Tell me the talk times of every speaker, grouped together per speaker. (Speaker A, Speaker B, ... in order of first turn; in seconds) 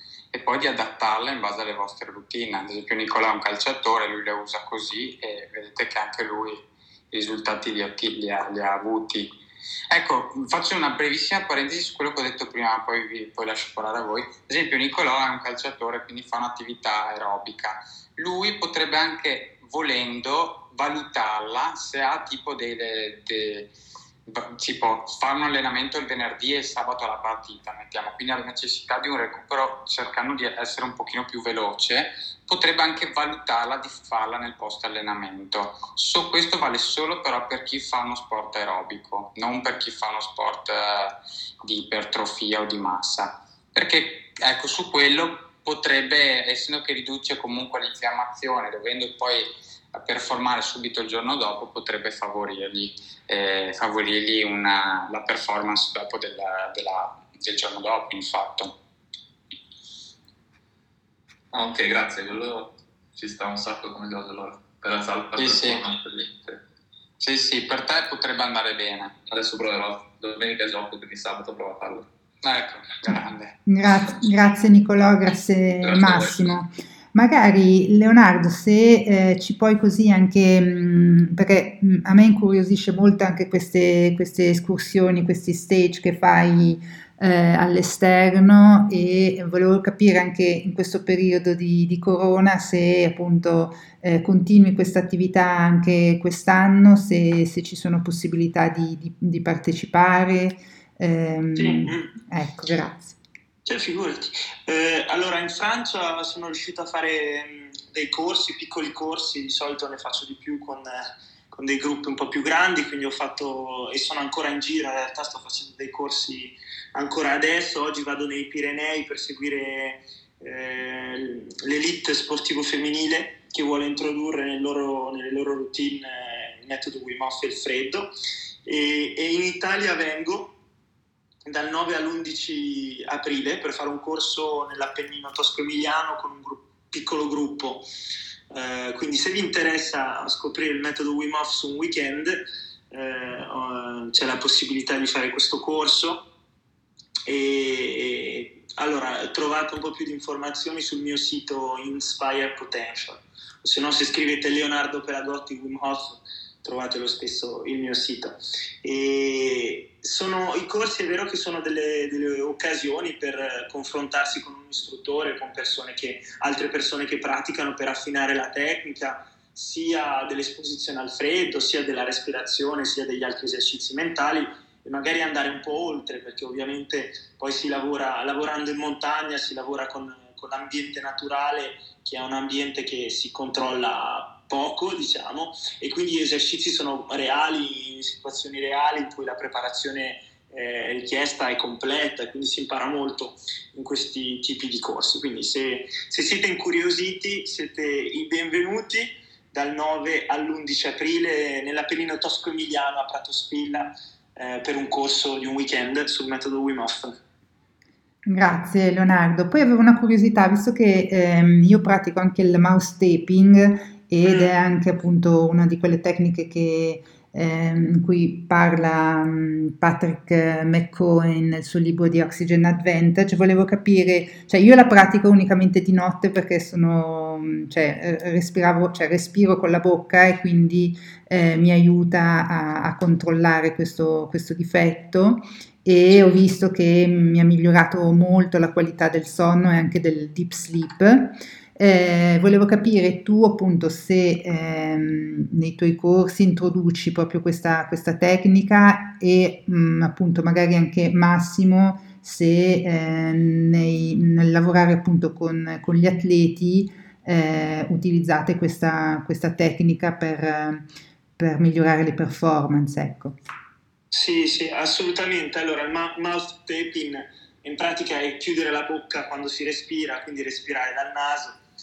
Speaker A: 0.3-9.3, 9.9-23.7, 24.2-58.8, 65.3-65.9, 67.2-69.1, 72.4-73.6
Speaker B: 61.5-66.6, 69.3-72.1, 75.8-76.6
Speaker C: 73.7-103.2, 208.3-260.9, 261.4-263.4
Speaker D: 101.5-102.1, 103.6-128.1, 128.6-130.6, 131.4-137.9, 138.5-146.3, 147.2-207.2, 214.2-214.5, 264.1-271.6